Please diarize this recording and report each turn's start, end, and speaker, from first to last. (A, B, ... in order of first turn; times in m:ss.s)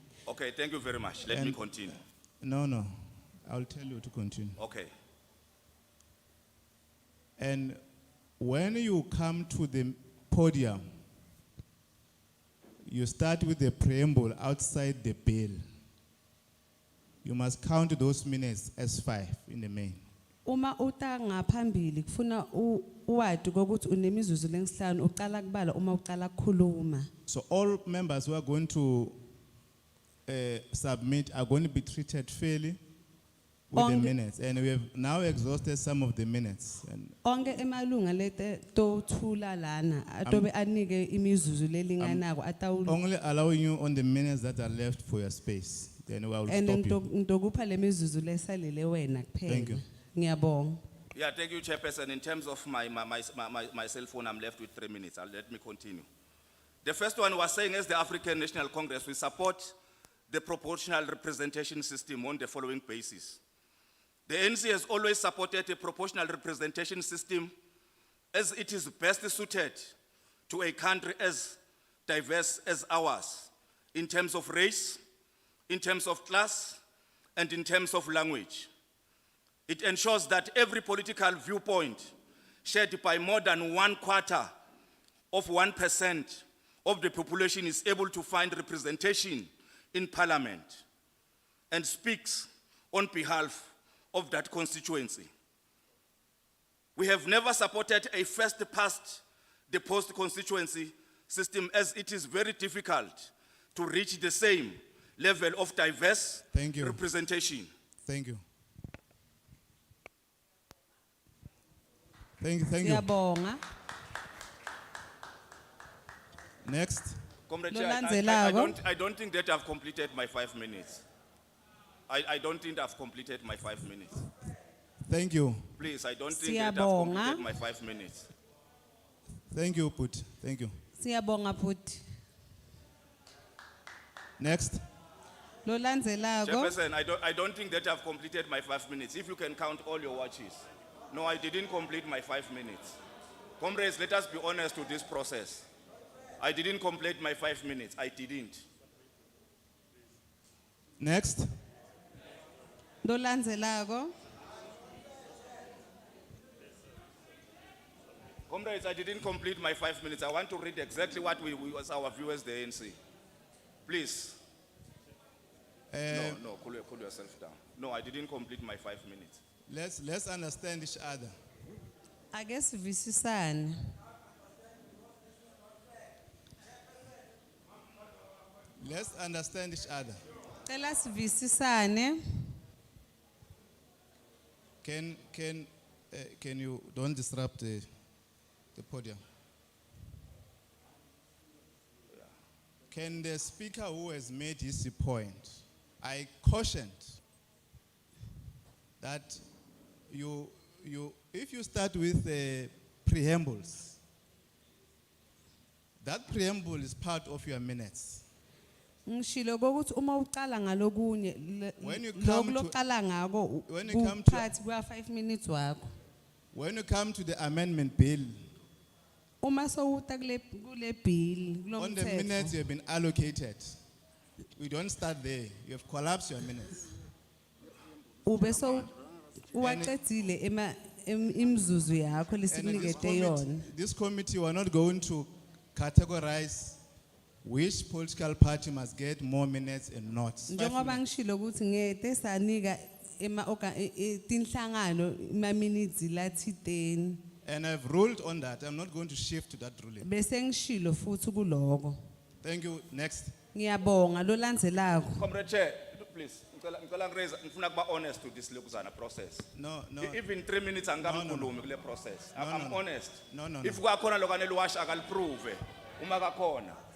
0:00.2-0:02.0 A
0:01.3-0:01.6 B
0:02.4-0:02.9 B
0:03.4-0:04.6 B
0:04.6-0:04.9 A
0:07.4-0:07.8 B
0:08.4-0:10.8 B
0:12.9-0:15.6 B
0:17.2-0:20.0 B
0:20.4-0:27.1 C
0:27.3-0:29.2 B
0:30.2-0:32.8 B
0:33.7-0:37.1 B
0:33.7-0:34.1 C
0:37.2-0:43.0 C
0:42.8-0:47.0 B
0:46.5-0:50.8 C
0:49.5-0:49.8 B
0:51.1-0:56.0 A
0:56.8-0:59.8 A
1:00.3-1:03.4 A
1:04.3-1:07.5 A
1:08.3-1:09.9 A
1:10.5-1:15.0 A
1:15.7-1:16.8 A
1:17.4-1:18.7 A
1:19.7-1:24.5 A
1:25.3-1:30.8 A
1:31.7-1:35.3 A
1:37.0-1:47.7 A
1:46.5-1:47.0 B
1:48.0-1:48.4 B
1:52.4-1:53.1 B
1:52.8-1:53.6 C
1:56.6-1:57.2 B
1:57.5-2:01.0 A
1:57.7-1:58.8 C
2:02.1-2:04.2 A
2:05.0-2:05.7 B
2:05.8-2:08.3 A
2:06.3-2:07.4 C
2:09.5-2:10.7 B
2:11.0-2:12.0 C
2:14.4-2:14.8 B
2:15.6-2:16.8 C
2:16.4-2:22.9 A
2:23.6-2:25.6 A
2:26.4-2:28.6 A
2:31.0-2:31.4 B
2:33.0-2:34.1 C
2:38.5-2:43.0 A
2:43.8-2:44.4 A
2:45.9-2:46.4 B
2:46.1-2:49.4 A
2:49.7-2:51.3 B
2:52.3-2:53.9 C
2:58.8-3:00.2 B
3:00.6-3:02.2 C
3:04.8-3:07.8 B
3:08.7-3:09.2 B
3:12.9-3:17.2 B
3:19.0-3:19.4 B
3:20.1-3:24.0 B
3:26.0-3:28.2 B
3:29.1-3:35.9 C
3:31.8-3:32.7 B
3:33.7-3:34.5 B
3:36.5-3:38.3 B
3:39.4-3:42.6 C
3:41.8-3:43.8 B
3:44.6-3:46.8 B
3:48.2-3:48.9 C
3:49.5-3:53.6 C
3:49.5-3:49.9 B
3:52.5-3:56.8 B
3:57.4-4:01.0 B
4:00.5-4:07.2 C
4:07.4-4:10.1 B
4:10.0-4:12.0 C
4:12.4-4:13.3 B
4:13.5-4:15.2 C
4:15.2-4:19.5 A
4:19.5-4:20.2 B
4:20.0-4:26.8 A
4:21.0-4:21.6 B
4:22.3-4:23.8 B